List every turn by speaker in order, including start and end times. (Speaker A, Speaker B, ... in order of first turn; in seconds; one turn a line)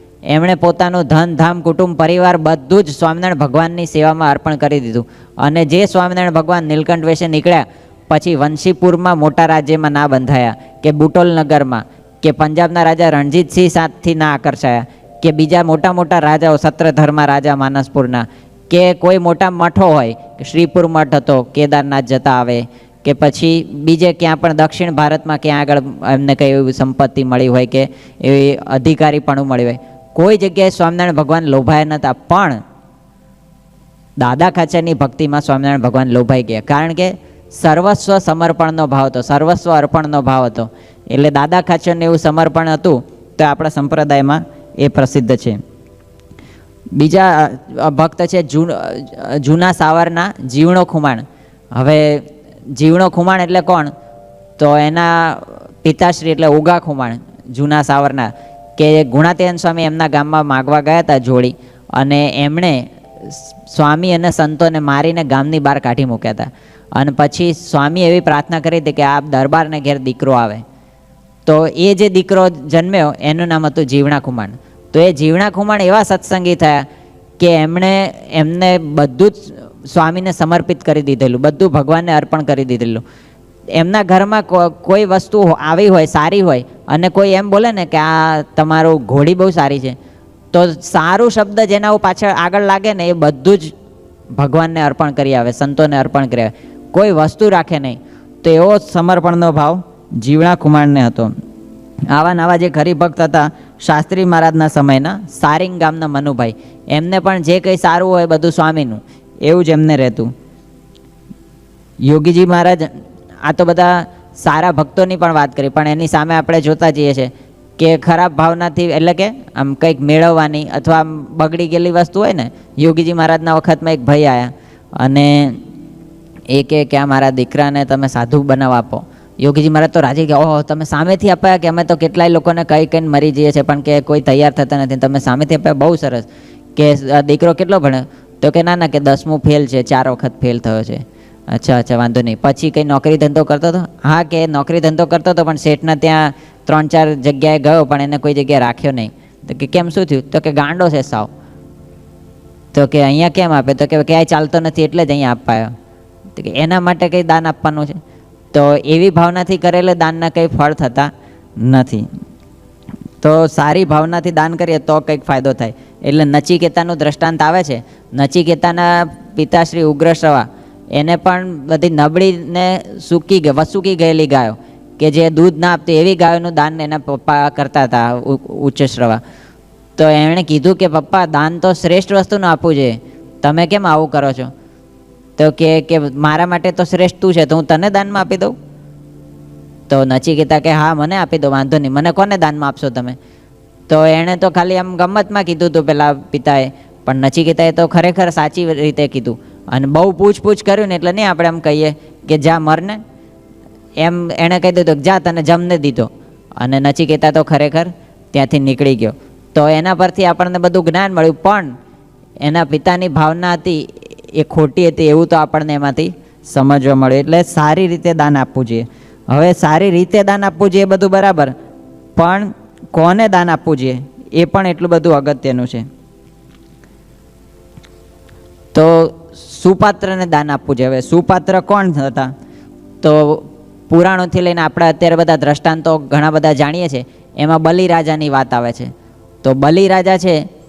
Speaker A: 0.3-32.6
Speaker A: 34.2-45.6
Speaker A: 47.0-53.9
Speaker A: 54.6-70.6
Speaker A: 71.5-76.8
Speaker A: 77.4-83.0
Speaker A: 83.8-90.0
Speaker A: 90.5-93.7
Speaker A: 94.3-101.3
Speaker A: 102.1-110.3
Speaker A: 112.0-112.9
Speaker A: 113.4-125.6
Speaker A: 126.5-151.3
Speaker A: 152.7-155.7
Speaker A: 156.3-158.0
Speaker A: 158.5-162.1
Speaker A: 163.2-179.2
Speaker A: 180.0-184.5
Speaker A: 185.4-188.5
Speaker A: 189.9-193.2
Speaker A: 193.9-203.0
Speaker A: 204.0-206.1
Speaker A: 206.6-211.7
Speaker A: 212.4-221.5
Speaker A: 222.2-225.8
Speaker A: 228.7-232.3
Speaker A: 233.0-238.9
Speaker A: 239.4-240.4